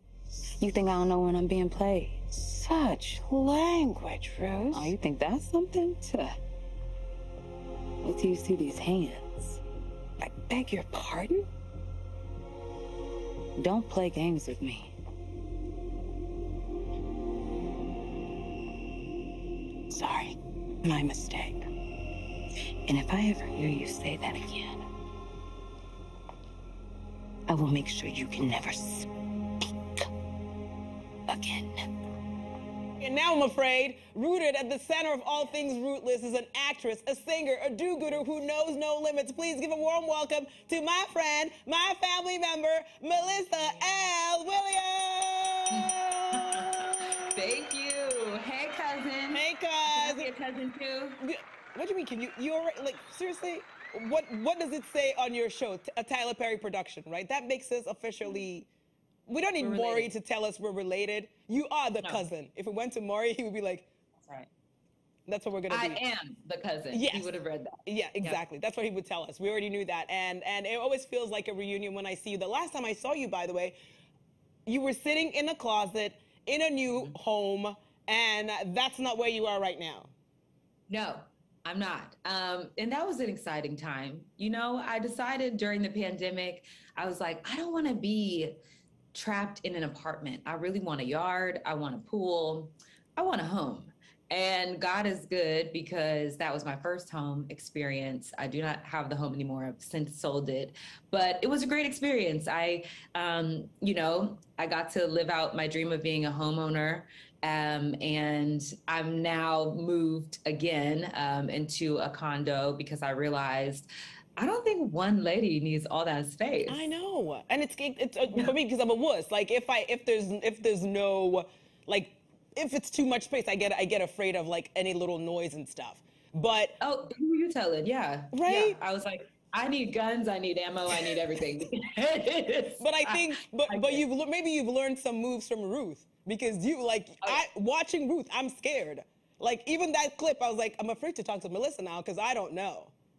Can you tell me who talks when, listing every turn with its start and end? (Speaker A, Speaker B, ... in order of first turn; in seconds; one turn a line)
Speaker A: 0.6-6.3
Speaker A: 8.0-9.6
Speaker A: 10.2-11.4
Speaker A: 13.6-14.9
Speaker A: 19.9-21.6
Speaker A: 22.9-24.8
Speaker A: 27.5-29.1
Speaker A: 31.3-31.8
Speaker B: 33.0-46.9
Speaker C: 45.8-51.2
Speaker B: 49.3-50.3
Speaker B: 51.2-58.7
Speaker B: 59.3-63.9
Speaker C: 59.6-60.1
Speaker C: 64.2-64.5
Speaker B: 65.3-66.0
Speaker C: 65.7-68.4
Speaker B: 66.9-67.3
Speaker B: 67.8-73.7
Speaker B: 74.7-80.1
Speaker C: 76.9-77.2
Speaker C: 80.9-88.6
Speaker C: 89.1-116.9
Speaker B: 116.7-126.7
Speaker C: 126.8-134.0
Speaker B: 128.3-128.8
Speaker B: 132.8-142.9